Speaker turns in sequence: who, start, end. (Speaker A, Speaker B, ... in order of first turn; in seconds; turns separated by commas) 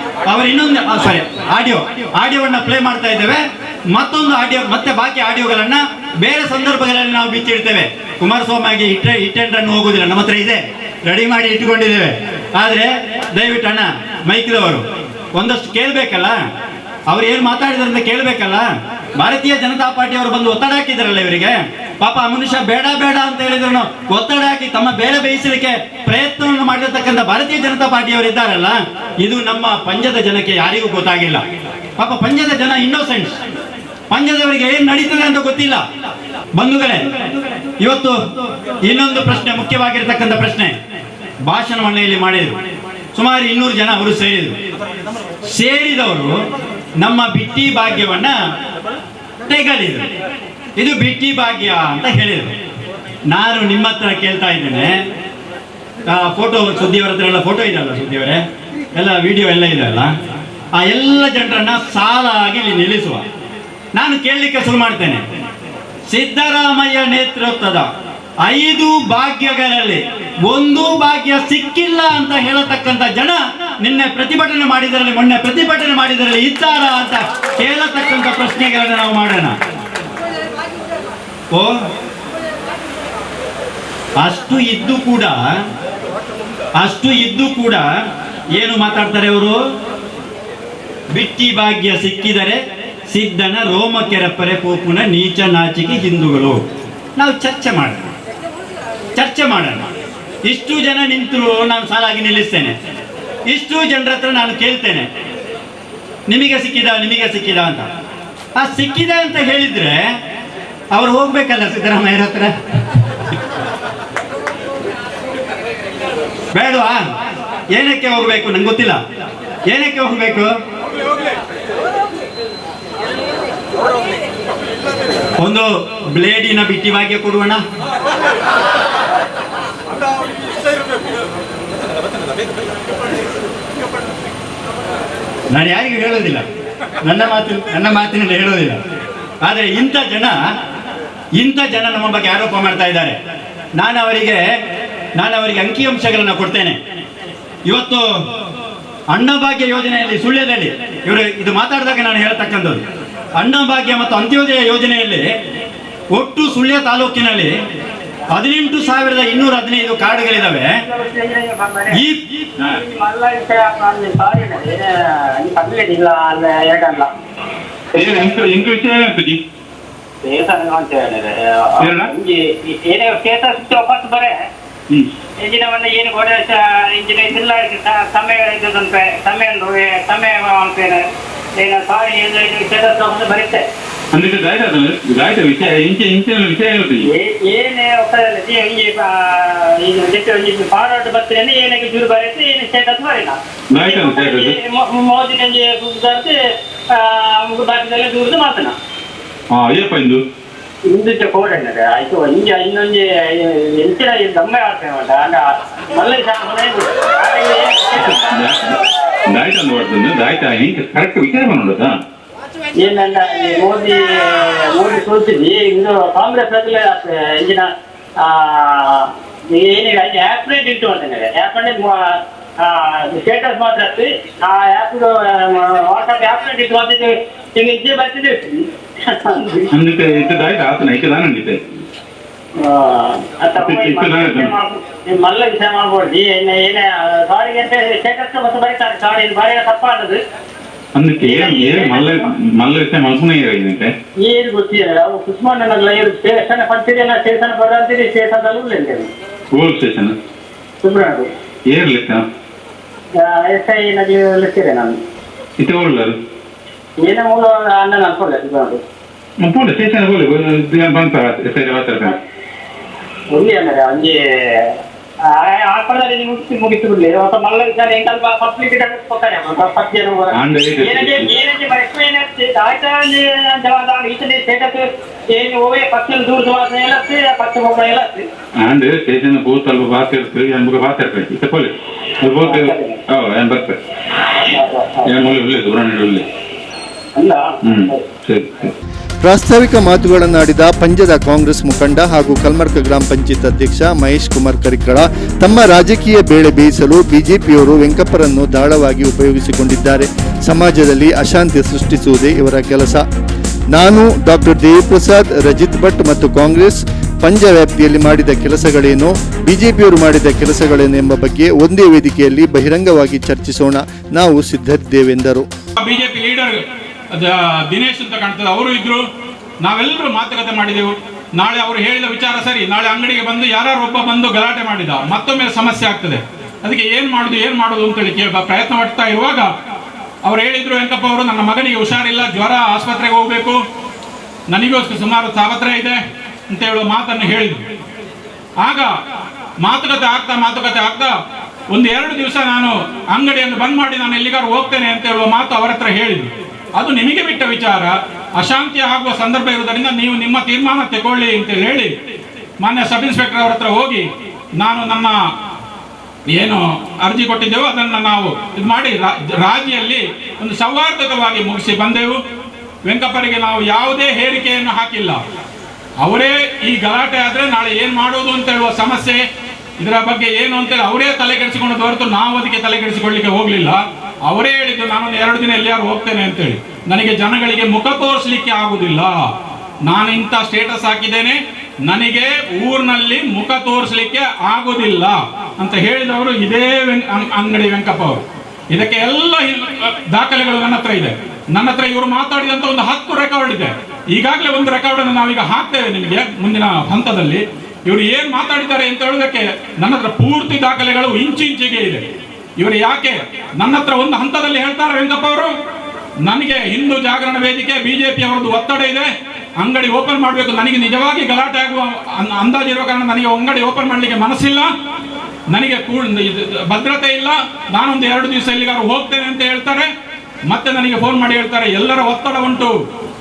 Speaker A: 0.3-14.8, Speaker A: 15.3-16.4, Speaker A: 17.1-31.4, Speaker A: 32.0-33.4, Speaker A: 34.1-35.8, Speaker A: 36.5-37.0, Speaker A: 37.8-38.2, Speaker A: 38.9-40.7, Speaker A: 41.5-42.6, Speaker A: 43.1-44.5, Speaker A: 45.5-46.4, Speaker A: 47.0-48.4, Speaker A: 49.5-50.1, Speaker A: 50.8-52.5, Speaker A: 53.3-55.0, Speaker A: 56.1-58.4, Speaker A: 58.9-60.1, Speaker A: 60.8-63.2, Speaker A: 64.0-65.2, Speaker A: 66.1-67.9, Speaker A: 68.5-79.5, Speaker A: 84.2-85.4, Speaker A: 86.8-87.8, Speaker A: 88.5-89.5, Speaker A: 91.1-96.6, Speaker A: 97.2-98.1, Speaker A: 99.2-99.9, Speaker A: 100.5-102.7, Speaker A: 103.5-105.1, Speaker A: 106.3-107.9, Speaker A: 108.6-110.0, Speaker A: 110.9-112.5, Speaker A: 116.5-117.0, Speaker A: 117.7-119.0, Speaker A: 119.7-120.5, Speaker A: 125.4-127.6, Speaker A: 135.5-136.4, Speaker A: 137.0-138.8, Speaker A: 139.4-140.3, Speaker A: 141.4-143.2, Speaker A: 143.8-144.4, Speaker A: 145.2-146.8, Speaker A: 147.7-148.1, Speaker A: 149.1-152.8, Speaker A: 153.4-155.3, Speaker A: 156.1-157.5, Speaker A: 158.3-160.7, Speaker B: 160.8-162.0, Speaker A: 161.9-162.2, Speaker B: 162.6-167.1, Speaker C: 167.9-169.4, Speaker B: 168.0-168.3, Speaker B: 170.2-174.3, Speaker C: 171.8-172.1, Speaker B: 175.4-181.1, Speaker B: 181.6-183.6, Speaker C: 184.1-187.1, Speaker B: 187.1-196.3, Speaker C: 193.7-194.5, Speaker B: 196.9-198.8, Speaker C: 199.5-200.2, Speaker B: 200.9-208.3, Speaker C: 208.0-208.8, Speaker C: 209.3-212.0, Speaker B: 212.8-229.7, Speaker C: 229.7-231.6, Speaker B: 232.6-240.2, Speaker C: 233.6-234.5, Speaker C: 240.9-243.9, Speaker B: 241.2-242.2, Speaker B: 244.2-249.1, Speaker C: 249.5-250.1, Speaker B: 250.8-251.3, Speaker C: 251.7-252.2, Speaker B: 253.2-255.0, Speaker C: 255.6-256.1, Speaker B: 257.0-258.8, Speaker C: 259.4-262.1, Speaker B: 263.3-264.7, Speaker B: 265.2-278.2, Speaker C: 270.3-271.3, Speaker C: 278.6-283.8, Speaker B: 282.4-283.0, Speaker B: 284.5-285.1, Speaker C: 285.1-286.2, Speaker B: 287.1-288.1, Speaker C: 287.6-288.7, Speaker D: 289.2-303.0, Speaker D: 303.7-315.5, Speaker E: 315.8-316.6, Speaker E: 317.1-319.0, Speaker E: 319.6-329.5, Speaker E: 330.2-333.6, Speaker E: 334.5-336.0, Speaker E: 336.5-337.6, Speaker E: 338.6-338.9, Speaker E: 339.6-341.1, Speaker E: 341.7-351.9, Speaker E: 352.6-354.1, Speaker E: 354.6-355.2, Speaker E: 356.3-362.2, Speaker E: 362.9-365.2, Speaker E: 366.0-369.2, Speaker E: 369.8-379.1, Speaker E: 379.9-388.2, Speaker E: 388.7-402.0, Speaker E: 402.6-405.5, Speaker E: 406.2-409.1, Speaker E: 409.6-414.7, Speaker E: 415.5-419.9, Speaker E: 420.5-422.7